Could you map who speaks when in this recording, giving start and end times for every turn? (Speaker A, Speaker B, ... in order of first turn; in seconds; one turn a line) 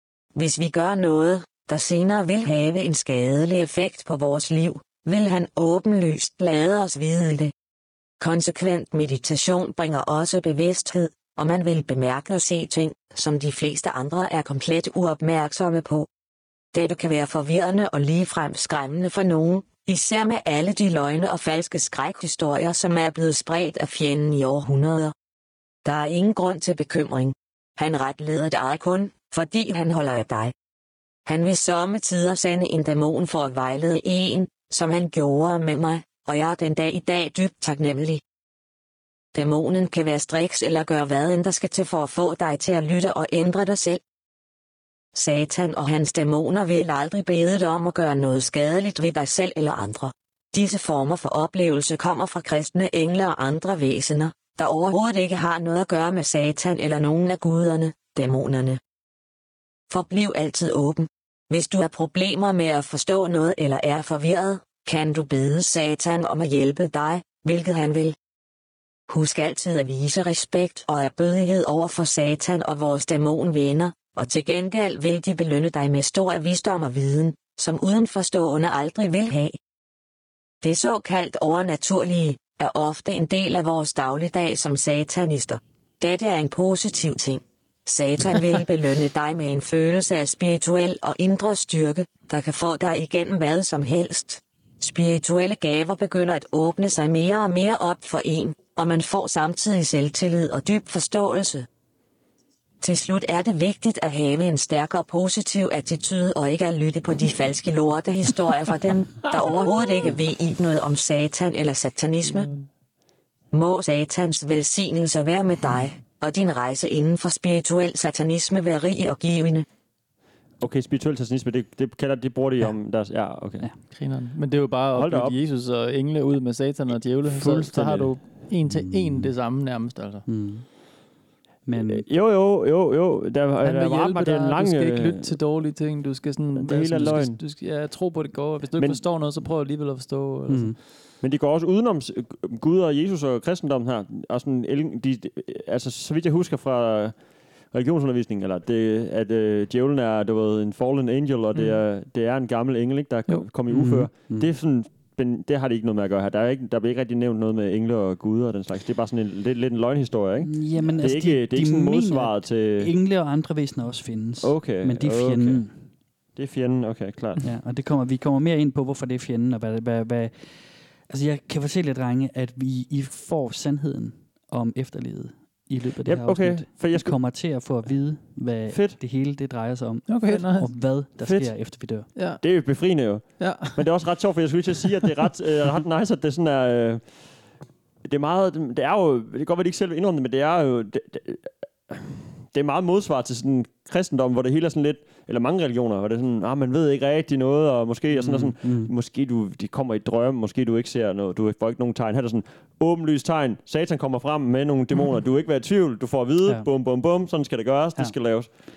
Speaker A: 0.3-7.5
Speaker A: 8.2-16.1
Speaker A: 16.7-25.1
Speaker A: 25.8-30.5
Speaker A: 31.3-38.2
Speaker A: 39.3-44.0
Speaker A: 45.1-58.8
Speaker A: 59.9-68.2
Speaker A: 69.1-79.6
Speaker A: 80.6-101.7
Speaker A: 102.8-112.5
Speaker A: 113.5-119.7
Speaker B: 120.6-123.7
Speaker C: 123.9-130.3
Speaker B: 124.9-125.4
Speaker B: 127.3-128.2
Speaker D: 128.7-129.3
Speaker D: 130.3-130.7
Speaker D: 131.7-132.1
Speaker B: 131.8-135.4
Speaker C: 133.6-140.8
Speaker B: 136.5-137.4
Speaker B: 138.8-139.0
Speaker D: 140.5-140.8
Speaker B: 141.2-147.2
Speaker B: 147.7-162.9
Speaker D: 153.7-154.5
Speaker D: 160.4-165.7
Speaker B: 164.4-165.7
Speaker B: 166.4-167.5
Speaker D: 167.4-170.5
Speaker D: 171.1-182.1
Speaker B: 176.1-177.2
Speaker B: 178.7-179.0
Speaker C: 180.1-180.7
Speaker B: 181.2-181.5
Speaker C: 182.2-182.5
Speaker B: 182.4-187.1
Speaker C: 183.4-183.9
Speaker B: 188.0-208.5
Speaker D: 198.1-198.9